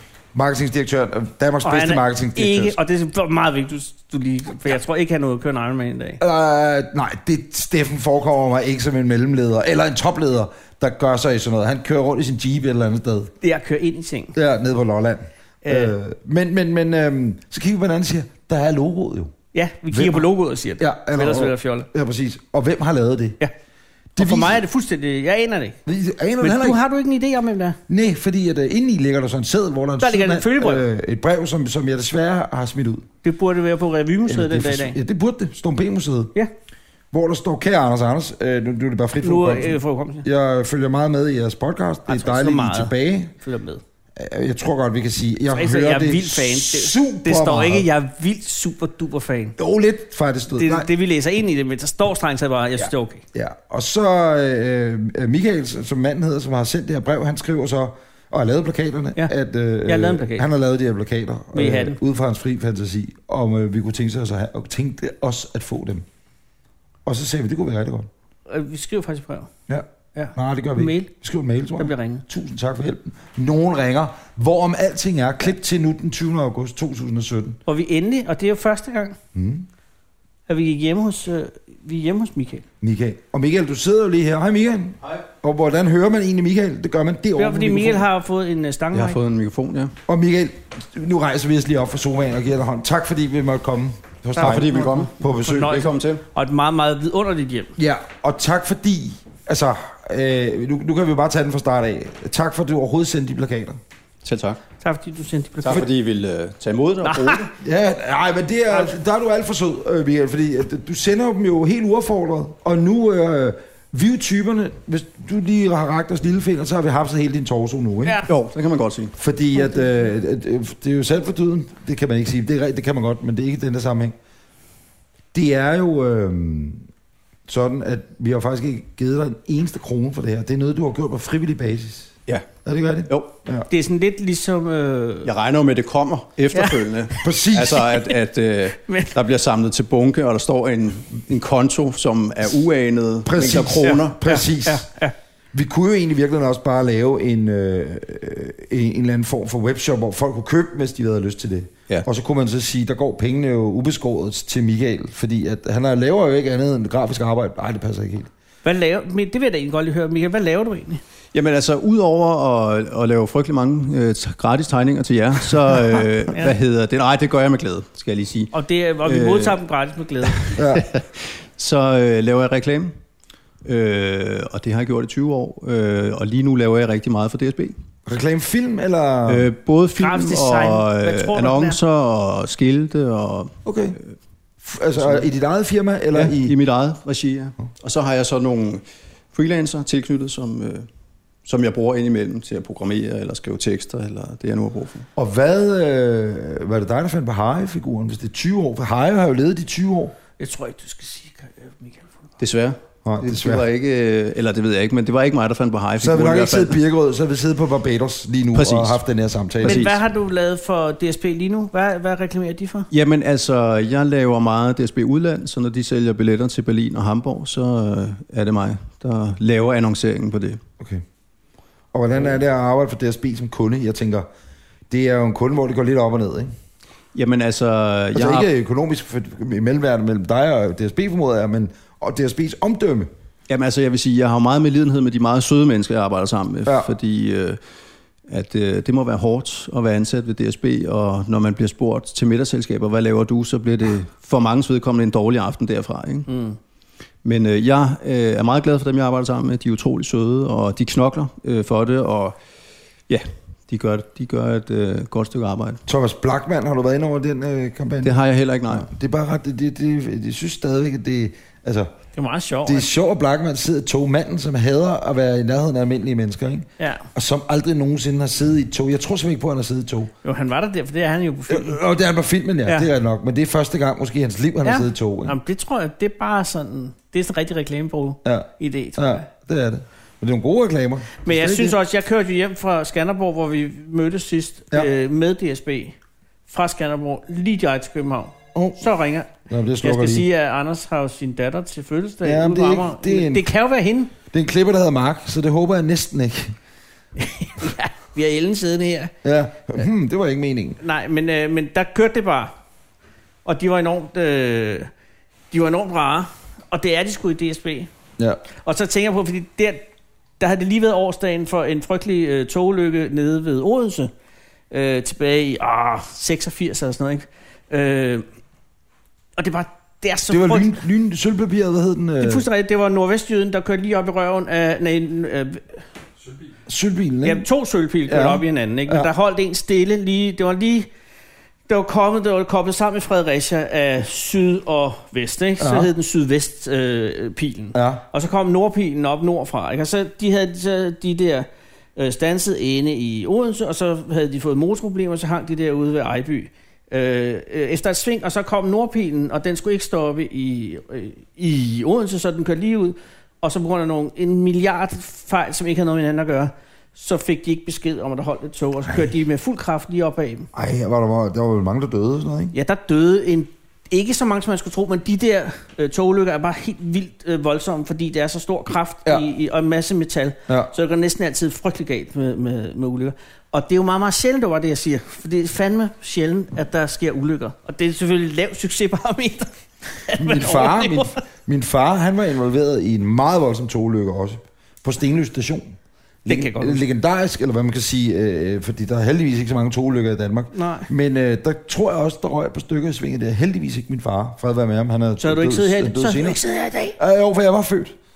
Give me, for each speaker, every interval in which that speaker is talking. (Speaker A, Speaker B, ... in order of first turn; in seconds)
Speaker A: 0.3-2.8, 6.2-13.3, 14.3-19.3, 19.9-20.3, 20.8-23.4, 24.2-24.6, 25.9-26.8, 27.9-33.1, 34.3-36.3, 37.1-43.3, 44.2-47.9, 49.6-50.9, 52.8-66.1, 67.0-68.1, 69.7-77.6, 79.3-79.7, 82.8-88.1, 90.1-95.9, 97.8-103.8, 107.6-118.2, 119.2-124.1, 125.3-126.8, 127.5-132.1, 132.7-133.7, 137.2-137.9, 143.3-144.9, 145.5-158.3, 170.6-170.9, 178.1-179.5, 183.7-184.0, 184.6-186.6, 195.2-200.2, 203.1-203.7, 206.0-209.9, 221.9-224.3, 224.9-226.5, 228.1-233.1, 236.7-236.9, 255.9-258.1, 258.7-261.9, 262.7-270.1, 271.5-275.4, 278.2-281.8, 288.5-288.8, 289.5-290.3, 292.2-293.5, 294.3-296.6, 299.2-300.8, 320.3-322.5, 326.7-327.5, 328.1-329.1, 335.6-335.9, 337.7-338.0, 360.5-362.5, 380.1-396.4, 397.0-397.9
Speaker B: 1.6-6.2, 13.4-14.3, 15.6-15.9, 19.5-21.9, 24.2-25.8, 26.4-27.8, 30.0-30.8, 33.2-35.0, 39.2-40.2, 42.1-43.8, 45.5-49.6, 50.5-53.2, 59.9-60.5, 61.5-62.0, 68.5-69.5, 70.2-71.1, 71.8-72.2, 77.7-79.2, 80.5-82.7, 87.4-89.2, 94.4-97.7, 104.8-105.8, 107.1-107.5, 133.7-135.3, 136.5-137.2, 138.7-139.1, 144.2-145.1, 158.6-161.0, 168.5-170.5, 180.0-181.8, 200.4-202.2, 209.7-212.9, 246.3-246.6, 262.1-262.9, 266.8-267.0, 270.2-271.8, 274.6-279.3, 281.2-286.0, 286.5-289.3, 289.8-294.1, 297.2-299.1, 300.8-302.5, 303.4-304.9, 305.5-307.9, 308.6-309.9, 310.4-314.1, 314.7-318.2, 319.4-320.8, 322.2-325.8, 327.2-330.9, 331.7-360.5, 362.5-379.5, 380.0-381.2, 386.3-386.8, 390.5-390.9, 395.2-397.0
Speaker C: 88.9-89.9, 94.4-96.2, 104.2-104.6, 105.7-107.5, 118.3-119.1, 135.2-144.2, 161.3-168.5, 169.0-169.6, 170.2-172.9, 173.6-177.7, 179.3-183.6, 185.0-185.2, 186.1-190.9, 191.4-195.1, 202.4-206.8, 208.5-209.0, 209.6-209.9, 212.9-220.6, 227.1-228.5, 233.5-237.6, 238.3-246.3, 247.2-252.4, 253.1-255.8, 258.0-258.9